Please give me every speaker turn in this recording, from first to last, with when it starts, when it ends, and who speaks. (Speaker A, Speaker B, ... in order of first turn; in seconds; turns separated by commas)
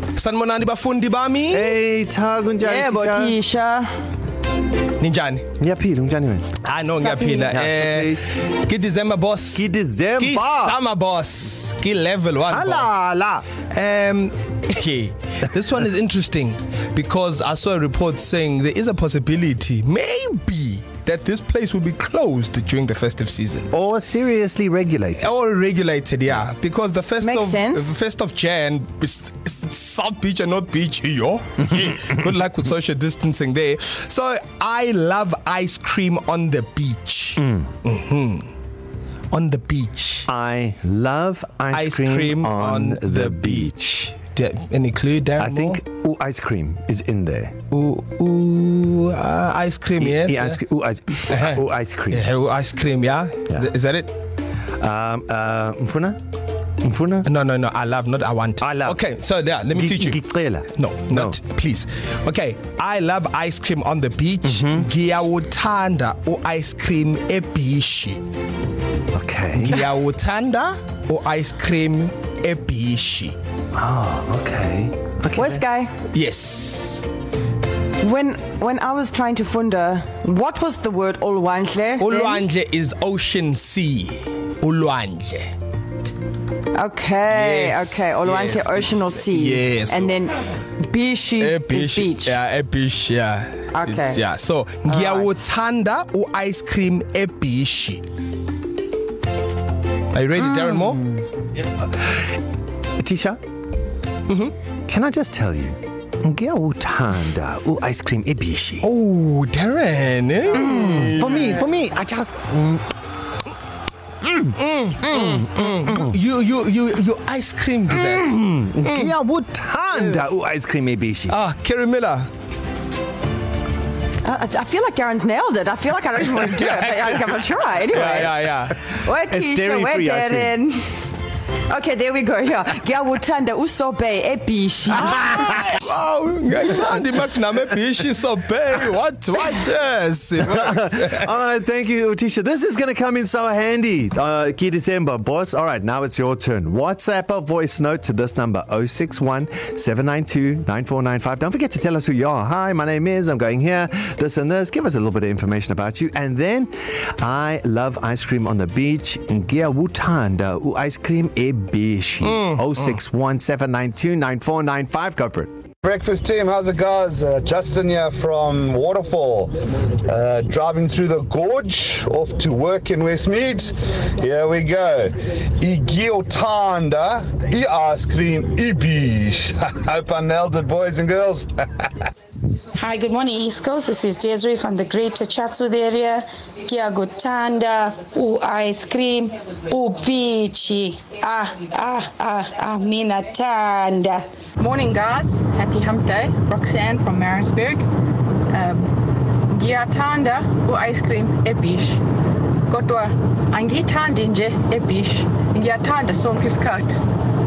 Speaker A: 0.1-1.8, Speaker B: 1.5-3.4, Speaker C: 2.6-3.9, Speaker A: 5.0-5.5, Speaker B: 5.6-6.6, Speaker A: 6.6-9.7, Speaker B: 7.2-8.3, Speaker B: 9.5-10.8, Speaker A: 10.2-13.1, Speaker B: 12.5-13.5, Speaker A: 13.6-23.7, Speaker B: 23.7-25.3, Speaker A: 25.2-38.5, Speaker C: 27.2-27.9, Speaker A: 39.3-40.3, Speaker B: 40.3-44.2, Speaker A: 41.7-43.7, Speaker A: 44.3-45.8, Speaker B: 45.4-47.6, Speaker A: 47.7-50.6, Speaker B: 50.0-52.2, Speaker A: 51.3-54.1, Speaker B: 54.8-56.2, Speaker B: 56.8-57.3, Speaker A: 57.2-60.2, Speaker B: 58.6-59.0, Speaker B: 59.7-61.4, Speaker A: 60.7-68.2, Speaker B: 64.4-64.9, Speaker B: 69.1-69.8, Speaker A: 69.5-73.3, Speaker B: 73.7-75.6, Speaker C: 75.3-75.9, Speaker A: 76.1-77.1, Speaker C: 78.0-82.4, Speaker A: 82.0-85.5, Speaker C: 86.7-92.4, Speaker A: 87.3-90.2, Speaker A: 91.4-98.0, Speaker C: 93.7-94.2, Speaker C: 94.9-95.3, Speaker A: 100.1-101.2, Speaker B: 101.9-102.2, Speaker B: 103.0-103.4, Speaker A: 104.3-104.5, Speaker B: 104.9-108.9, Speaker A: 108.8-111.6, Speaker B: 110.7-112.9, Speaker A: 114.4-119.1, Speaker B: 115.2-116.1, Speaker B: 117.9-121.4, Speaker A: 121.3-122.3, Speaker C: 124.2-128.3, Speaker A: 126.5-128.8, Speaker C: 128.9-130.8, Speaker B: 129.3-130.6, Speaker C: 131.7-135.7, Speaker A: 135.0-141.2, Speaker B: 140.4-165.5, Speaker A: 162.2-162.9, Speaker D: 165.8-169.5, Speaker D: 170.1-181.9, Speaker E: 182.8-194.2, Speaker F: 194.6-197.8, Speaker F: 198.5-202.0, Speaker F: 202.7-207.0